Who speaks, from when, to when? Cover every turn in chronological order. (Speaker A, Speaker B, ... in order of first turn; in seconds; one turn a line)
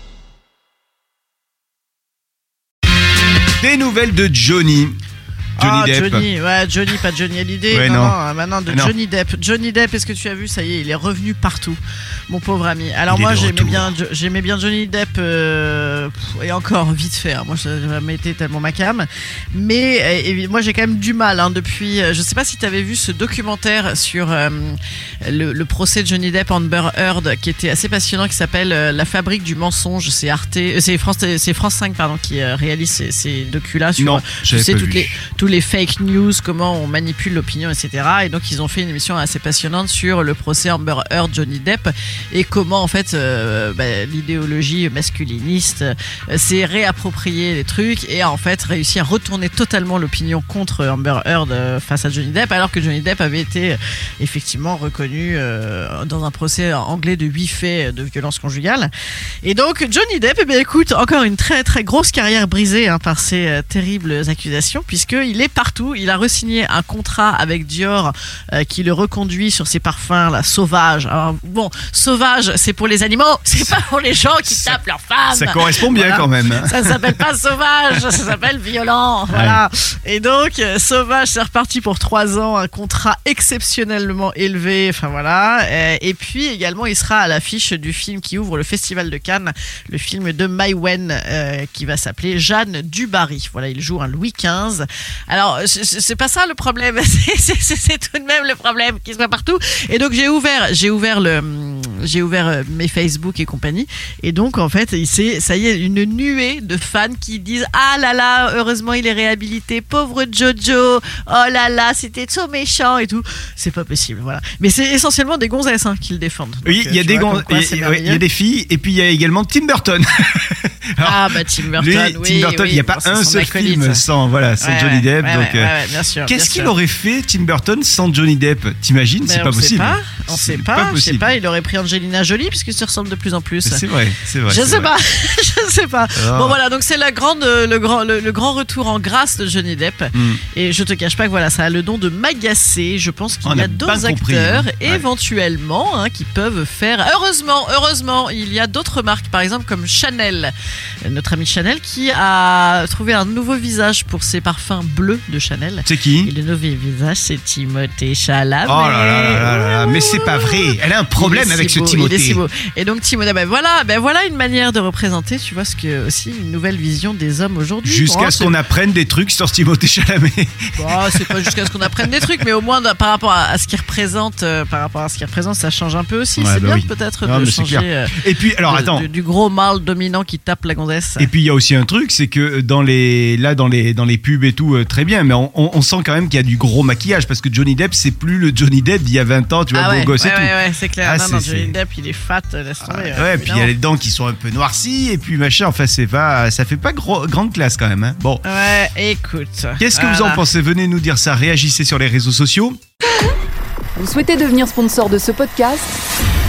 Speaker A: 3.6-5.0
Speaker B: 5.6-58.9
Speaker A: 5.6-6.3
Speaker A: 7.7-8.2
Speaker A: 8.7-8.9
Speaker A: 13.1-13.9
Speaker A: 34.0-35.1
Speaker B: 59.4-118.2
Speaker A: 75.3-77.1
Speaker A: 79.3-79.6
Speaker A: 116.6-125.7
Speaker B: 121.0-124.0
Speaker B: 124.6-126.7
Speaker A: 126.2-131.3
Speaker B: 129.2-133.8
Speaker A: 133.6-134.9
Speaker B: 134.5-150.5
Speaker A: 136.1-136.6
Speaker A: 140.1-140.4
Speaker A: 143.4-145.0
Speaker B: 151.0-168.6
Speaker A: 155.8-156.3
Speaker A: 158.7-162.4
Speaker A: 167.8-172.2
Speaker B: 170.8-181.3
Speaker A: 176.4-179.1
Speaker A: 181.2-191.8
Speaker B: 189.7-193.7
Speaker A: 192.8-198.4
Speaker B: 198.4-200.4
Speaker A: 199.8-202.8
Speaker C: 203.9-206.0